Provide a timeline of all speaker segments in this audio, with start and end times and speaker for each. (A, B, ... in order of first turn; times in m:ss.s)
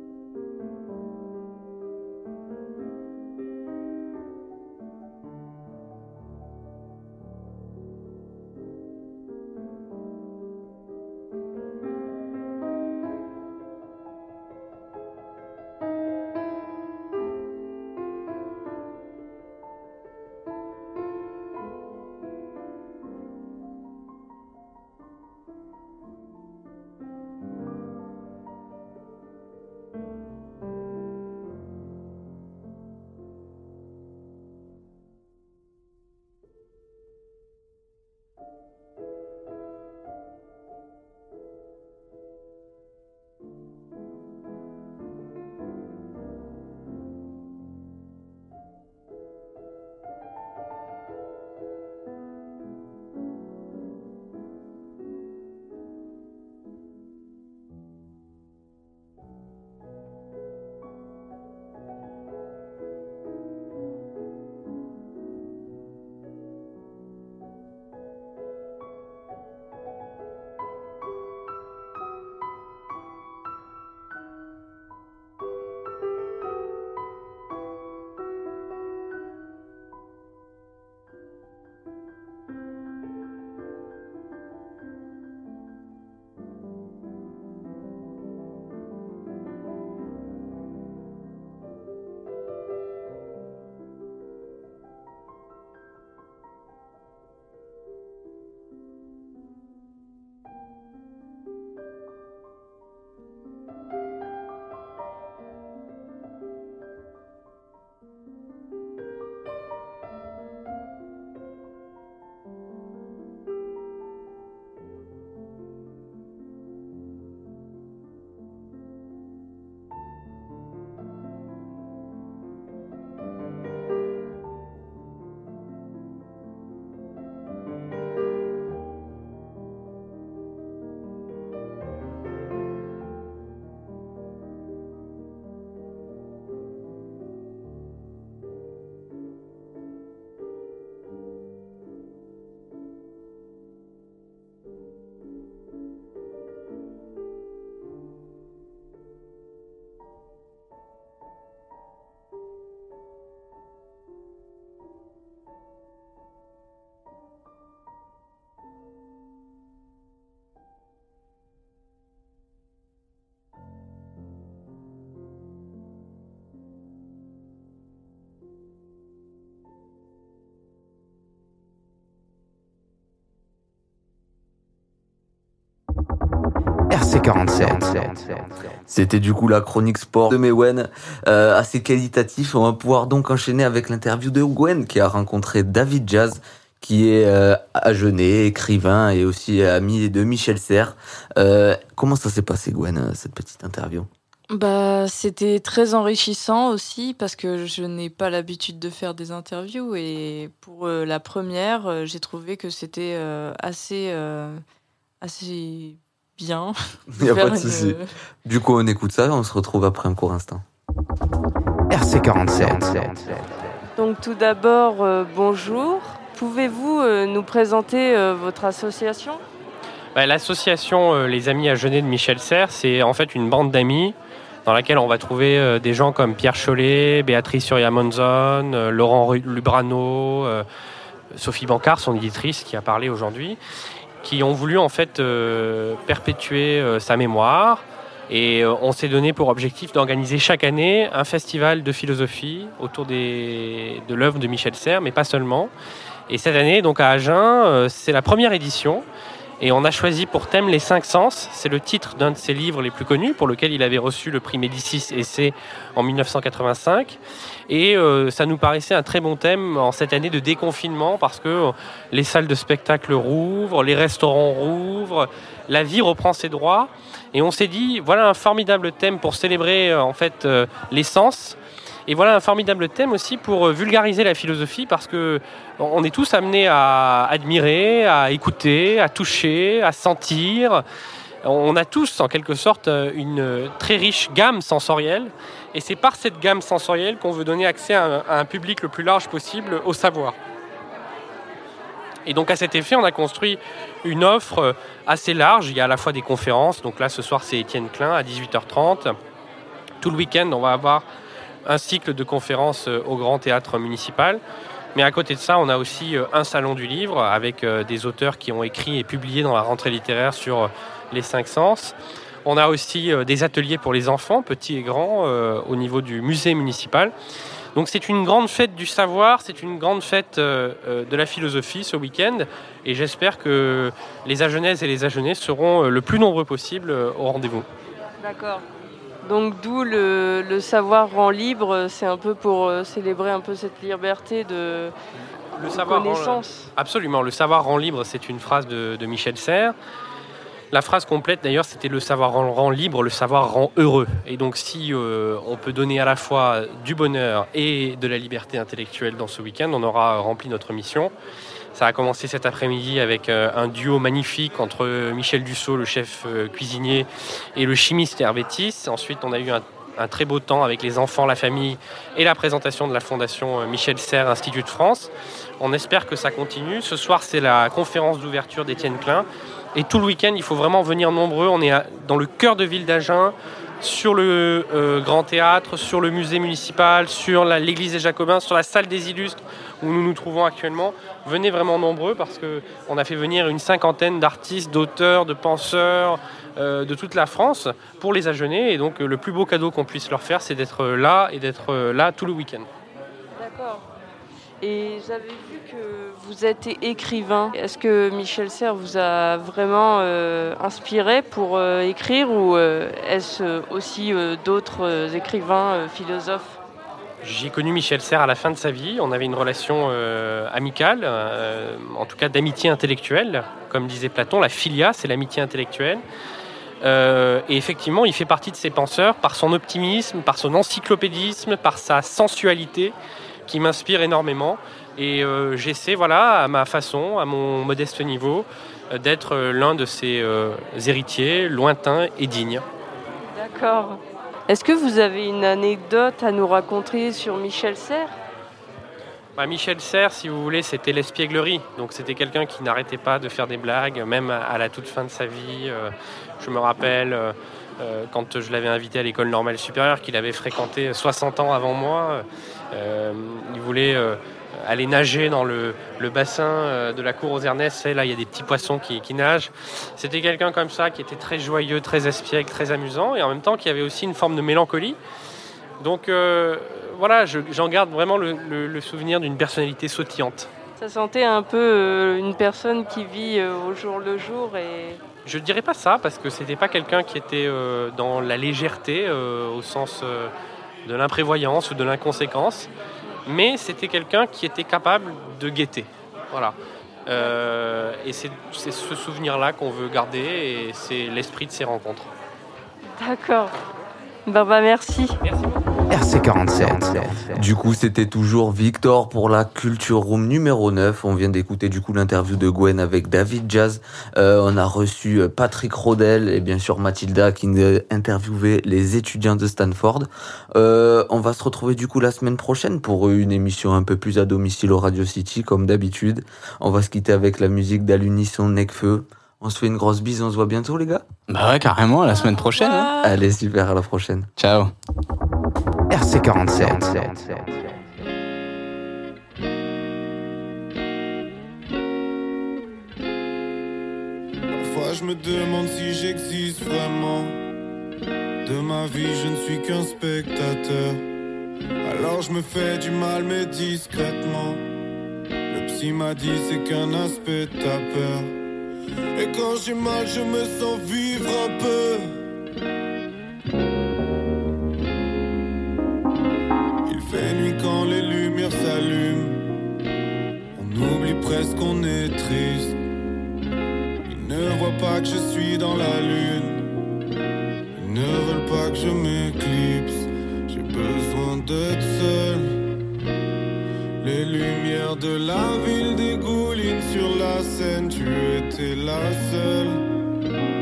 2:56.9-3:14.1 A
3:14.5-3:24.6 B
3:25.2-3:28.1 B
3:27.1-3:30.6 A
3:34.0-3:39.4 C
3:40.1-3:44.1 D
3:44.6-3:50.6 D
3:51.3-3:53.6 D
3:54.2-4:05.7 D
4:06.3-4:09.0 D
4:09.6-4:31.6 D
4:32.1-4:40.8 D
4:41.4-4:50.4 D
4:52.2-4:59.2 D
5:00.0-5:01.0 D
5:01.6-5:04.4 D
5:04.9-5:17.1 D
5:17.7-5:27.6 D
5:28.2-5:28.6 C
5:29.2-5:34.9 C
5:35.6-5:39.7 D
5:35.6-5:36.7 C
5:40.7-5:51.1 D
5:51.7-6:32.7 D
6:33.4-6:33.8 C
6:34.6-6:46.6 C
6:47.2-6:56.0 D
6:56.8-7:02.9 D
7:03.4-7:12.6 D
7:13.3-7:18.1 C
7:19.4-7:45.0 D
7:45.8-7:50.5 D
7:50.8-7:55.0 C
7:55.2-8:00.3 D
8:00.8-8:02.7 D
8:03.2-8:06.5 D
8:07.1-8:12.1 D
8:13.0-8:13.5 C
8:14.2-8:15.2 C
8:16.0-8:41.0 A
8:41.3-8:42.9 E
8:42.9-8:44.3 A
8:44.4-8:44.7 E
8:54.6-8:57.4 F
8:58.4-9:01.0 F
9:01.8-9:04.6 F
9:05.5-9:08.3 F
9:09.2-9:12.2 F
9:16.9-9:19.4 F
9:20.5-9:22.8 F
9:24.1-9:26.7 F
9:27.8-9:32.6 F
9:34.0-9:39.8 F